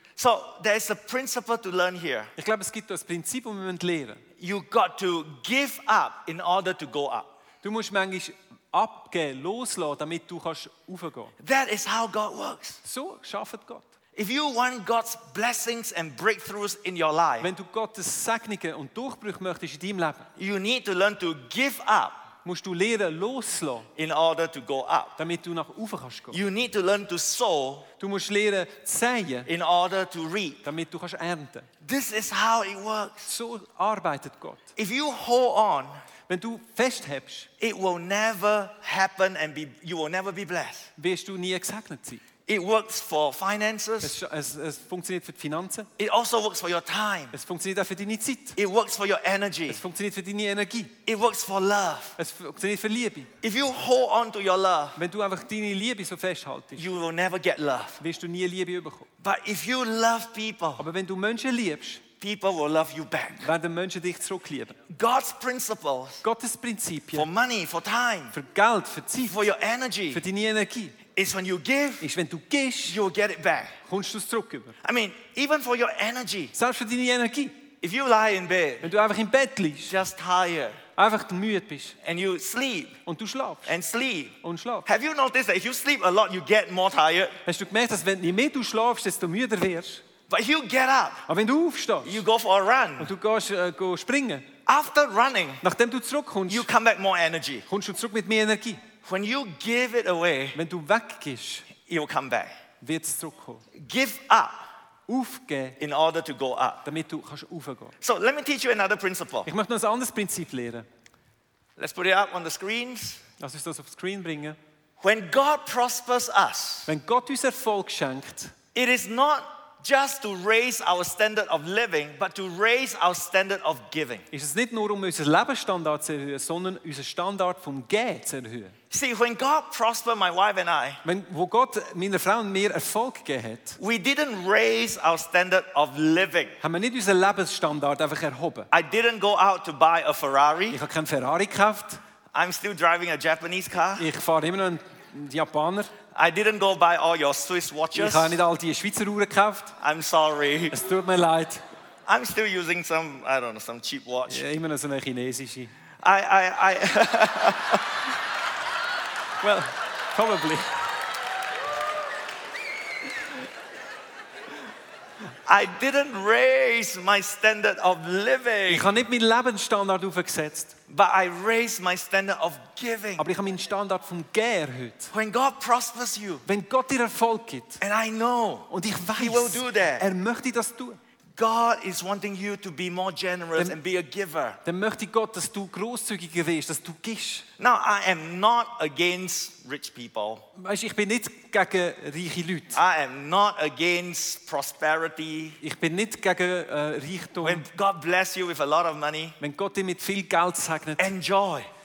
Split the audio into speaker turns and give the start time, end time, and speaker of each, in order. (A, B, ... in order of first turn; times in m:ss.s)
0:00.2-0:02.3 A
0:02.4-0:04.2 B
0:04.4-0:07.3 A
0:07.6-0:11.3 B
0:11.4-0:12.8 A
0:12.8-0:13.9 B
0:14.2-0:17.5 A
0:17.4-0:20.3 B
0:20.4-0:22.2 A
0:22.4-0:23.9 B
0:24.0-0:25.2 A
0:25.2-0:26.4 B
0:26.3-0:27.9 A
0:28.0-0:29.5 B
0:29.4-0:30.6 A
0:30.6-0:31.7 B
0:31.8-0:33.3 A
0:33.3-0:34.7 B
0:34.8-0:36.0 A
0:36.3-0:37.5 B
0:37.6-0:40.9 A
0:41.0-0:42.2 B
0:42.5-0:44.1 A
0:44.0-0:45.9 B
0:46.0-0:47.3 A
0:47.3-0:48.6 B
0:48.6-0:49.8 A
0:49.7-0:50.9 B
0:51.0-0:52.1 A
0:52.2-0:53.3 B
0:53.4-0:55.0 A
0:55.0-0:56.8 B
0:56.8-0:58.0 A
0:58.0-0:59.1 B
0:59.2-1:00.8 A
1:00.8-1:02.0 B
1:02.2-1:03.5 A
1:03.4-1:04.8 B
1:04.9-1:06.2 A
1:06.2-1:07.3 B
1:07.1-1:08.3 A
1:08.3-1:09.4 B
1:09.3-1:10.2 A
1:10.1-1:11.0 B
1:11.1-1:12.1 A
1:12.0-1:13.0 B
1:12.8-1:13.8 A
1:13.9-1:14.8 B
1:14.8-1:16.5 A
1:16.5-1:17.5 B
1:17.8-1:18.9 A
1:18.8-1:19.9 B
1:19.8-1:20.8 A
1:21.0-1:22.0 B
1:22.0-1:23.0 A
1:23.0-1:23.7 B
1:23.6-1:27.4 A
1:24.4-1:24.9 B
1:27.4-1:30.0 B
1:30.3-1:31.2 A
1:31.3-1:32.2 B
1:32.0-1:33.1 A
1:33.0-1:34.5 B
1:34.6-1:35.6 A
1:35.6-1:36.7 B
1:36.5-1:37.6 A
1:37.7-1:38.8 B
1:39.0-1:40.6 A
1:40.5-1:41.7 B
1:41.8-1:42.5 A
1:42.8-1:43.6 B
1:43.8-1:44.6 A
1:45.1-1:45.8 B
1:45.8-1:46.8 A
1:46.8-1:47.9 B
1:48.0-1:49.5 A
1:49.4-1:50.8 B
1:51.8-1:53.2 A
1:53.4-1:54.6 B
1:55.0-1:56.9 A
1:56.9-1:58.5 B
1:58.7-2:04.2 A
2:04.3-2:08.7 B
2:08.9-2:11.0 A
2:11.0-2:13.8 B
2:13.8-2:16.6 A
2:16.6-2:18.7 B
2:18.7-2:20.8 A
2:20.7-2:22.0 B
2:22.3-2:24.0 A
2:24.0-2:25.9 B
2:26.1-2:28.4 A
2:27.9-2:29.7 B
2:29.8-2:30.7 A
2:30.7-2:31.6 B
2:32.1-2:34.4 A
2:34.3-2:35.7 B
2:36.0-2:37.8 A
2:39.4-2:40.7 B
2:45.4-2:48.9 A
2:48.7-2:50.7 B
2:50.9-2:53.3 A
2:53.2-2:55.1 B
2:55.1-2:56.4 A
2:56.4-2:57.8 B
2:57.8-3:00.0 A
2:58.7-3:01.0 B
3:01.4-3:04.6 A
3:04.6-3:07.4 B
3:07.6-3:10.4 A
3:10.6-3:12.8 B
3:12.7-3:15.6 A
3:15.6-3:17.6 B
3:17.4-3:19.4 A
3:19.4-3:21.1 B
3:21.0-3:21.7 A